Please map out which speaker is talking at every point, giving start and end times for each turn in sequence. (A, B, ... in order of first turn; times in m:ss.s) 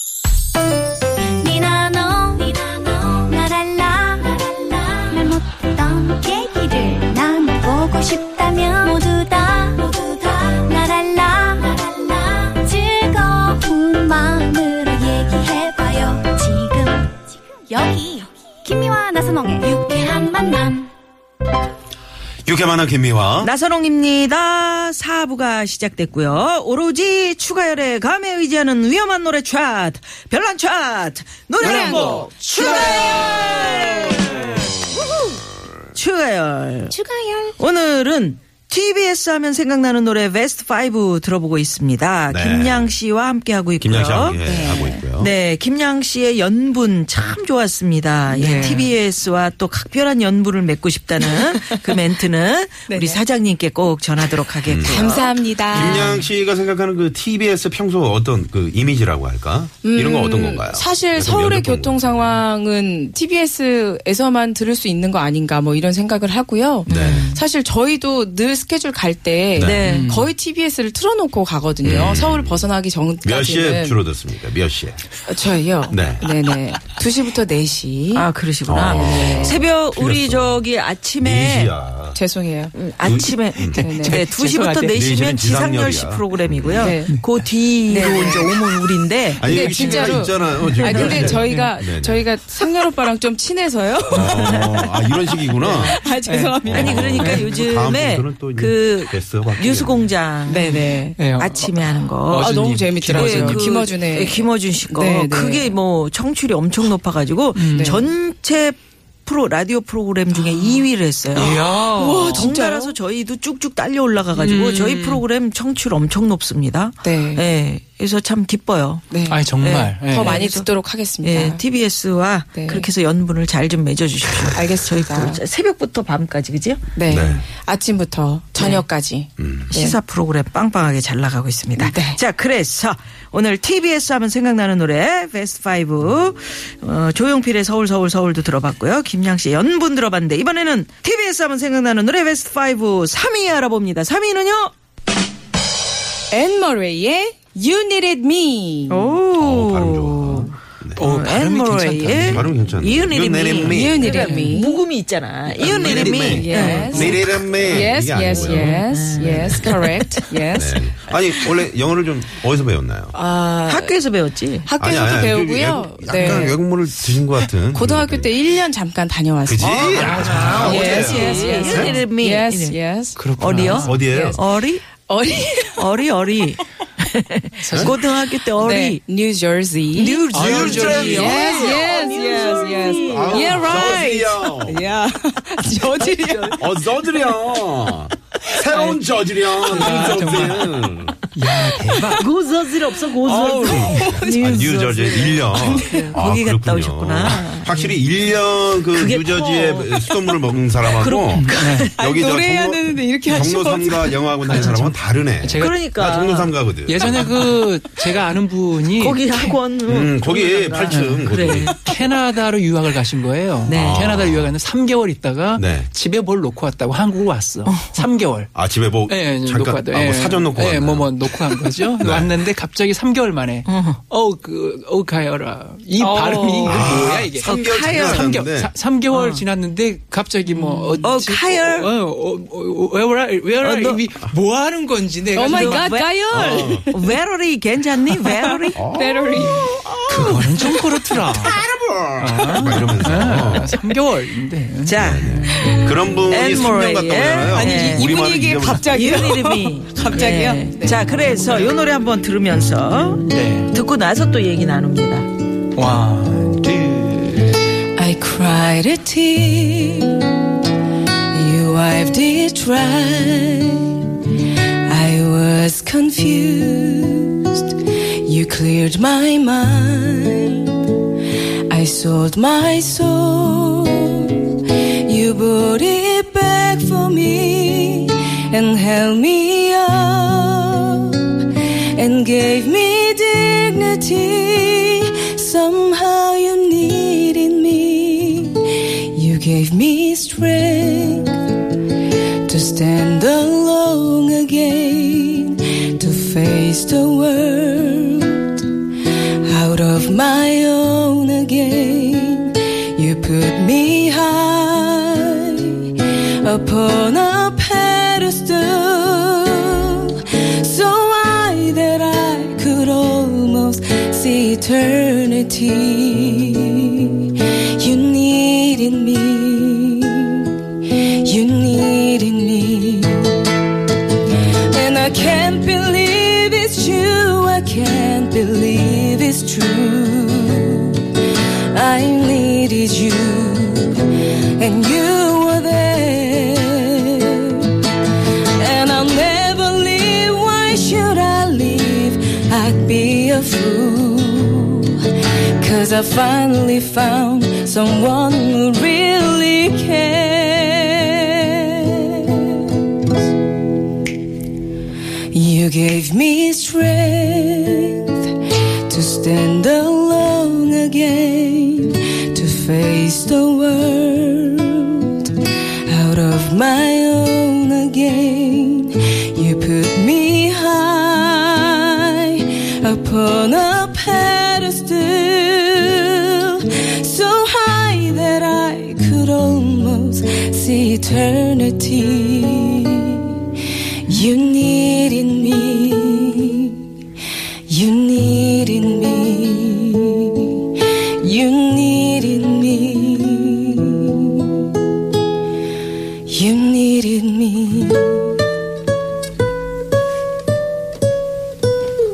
0:01.4-0:17.2 A
0:17.7-0:20.9 A
0:22.4-0:23.5 B
0:23.4-0:35.4 C
0:31.6-0:33.7 D
0:31.6-0:34.2 E
0:35.9-0:37.0 C
0:37.0-0:37.3 E
0:37.6-0:44.4 C
0:42.3-0:43.0 B
0:43.8-0:45.3 B
0:44.4-0:45.1 E
0:45.1-0:56.2 C
0:48.3-0:48.9 E
0:52.9-0:53.2 E
0:54.7-0:55.2 B
0:54.8-0:56.2 E
0:55.7-1:02.4 B
0:59.8-1:14.0 E
1:06.9-1:07.4 C
1:06.9-1:07.3 B
1:09.6-1:09.9 B
1:09.6-1:10.1 C
1:09.8-1:10.3 D
1:11.8-1:12.7 B
1:13.2-1:15.0 B
1:15.2-1:18.3 E
1:15.9-1:16.3 B
1:18.1-1:21.7 C
1:18.7-1:20.6 B
1:18.8-1:19.6 E
1:21.2-1:22.2 B
1:22.1-1:22.7 E
1:22.7-1:31.5 C
1:23.0-1:23.8 B
1:23.7-1:25.0 D
1:23.8-1:24.2 E
1:24.9-1:27.0 B
1:26.8-1:27.2 E
1:27.9-1:28.5 E
1:29.4-1:32.2 B
1:29.4-1:37.5 E
1:30.9-1:31.7 D
1:34.1-1:36.0 B
1:35.6-1:37.1 D
1:36.6-1:40.2 B
1:36.7-1:42.5 C
1:40.4-1:41.2 E
1:40.6-1:43.7 D
1:42.3-1:45.8 E
1:43.1-1:51.6 C
1:47.6-1:48.0 D
1:47.7-1:48.0 E
1:50.3-1:50.9 E
1:51.3-1:52.5 D
1:51.5-1:53.0 E
1:52.3-2:06.8 C
1:54.3-1:55.2 D
1:57.0-1:57.4 E
1:59.1-2:01.6 E
1:59.3-2:00.4 D
2:02.6-2:02.9 E
2:04.5-2:05.4 E
2:07.0-2:10.0 E
2:07.1-2:07.4 B
2:08.6-2:08.8 C
2:09.4-2:09.7 B
2:09.7-2:24.7 C
2:11.8-2:12.2 E
2:26.3-2:29.2 E
2:28.9-2:40.5 C
2:29.4-2:31.0 B
2:31.0-2:32.5 D
2:32.2-2:34.1 B
2:33.6-2:34.8 E
2:35.6-2:39.7 B
2:35.8-2:40.9 E
2:40.5-2:43.2 B
2:41.3-2:41.6 C
2:43.1-2:44.0 E
2:43.6-2:44.8 C
2:44.6-2:53.3 E
2:44.8-2:48.3 B
2:46.2-2:46.5 C
2:49.4-2:52.0 B
2:49.6-2:51.0 D
2:49.8-2:52.8 C
2:53.2-2:54.0 D
2:53.4-2:54.9 C
2:53.6-2:54.4 B
2:53.8-2:56.1 E
2:55.8-2:59.0 C
2:57.6-2:58.0 D
2:58.6-3:00.4 E
2:59.9-3:04.2 C
3:00.3-3:01.6 D
3:00.4-3:01.7 B
3:01.1-3:06.7 E
3:02.9-3:05.0 B
3:05.6-3:06.6 C
3:06.6-3:11.3 B
3:09.6-3:12.3 D
3:12.1-3:18.0 C
3:13.3-3:13.9 D
3:13.3-3:27.5 B
3:13.5-3:14.8 E
3:15.6-3:16.1 E
3:18.9-3:20.3 C
3:20.9-3:21.9 C
3:21.3-3:21.9 D
3:21.8-3:24.8 E
3:24.6-3:24.9 D
3:25.4-3:25.9 D
3:25.6-3:26.5 C
3:26.8-3:29.6 D
3:27.1-3:27.5 C
3:28.9-3:31.9 C
3:29.9-3:31.7 B
3:30.8-3:38.5 D
3:33.7-3:34.0 C
3:33.7-3:34.6 B
3:35.6-3:35.9 B
3:37.7-3:38.0 C
3:38.5-3:42.4 B
3:39.1-3:56.0 D
3:43.7-3:44.0 C
3:46.0-3:46.8 C
3:46.7-3:48.7 B
3:47.4-3:48.2 C
3:49.1-3:49.4 C
3:50.6-3:51.9 C
3:53.6-3:54.0 C
3:55.3-3:57.2 E
3:55.4-3:58.8 C
3:56.3-3:56.9 B
3:58.0-3:59.9 E
3:58.7-4:03.7 B
4:00.1-4:01.6 D
4:02.2-4:05.4 D
4:04.8-4:08.1 C
4:05.0-4:09.3 B
4:07.4-4:11.5 E
4:08.8-4:15.3 C
4:13.3-4:13.7 D
4:15.8-4:17.6 D
4:18.0-4:20.2 E
4:21.3-4:24.1 E
4:24.8-4:30.8 E
4:31.7-4:51.4 E
4:52.4-5:23.4 E
5:24.5-5:37.8 E
5:38.4-5:52.8 E
5:55.3-6:26.9 E
6:27.7-6:34.5 E
6:36.3-6:38.4 E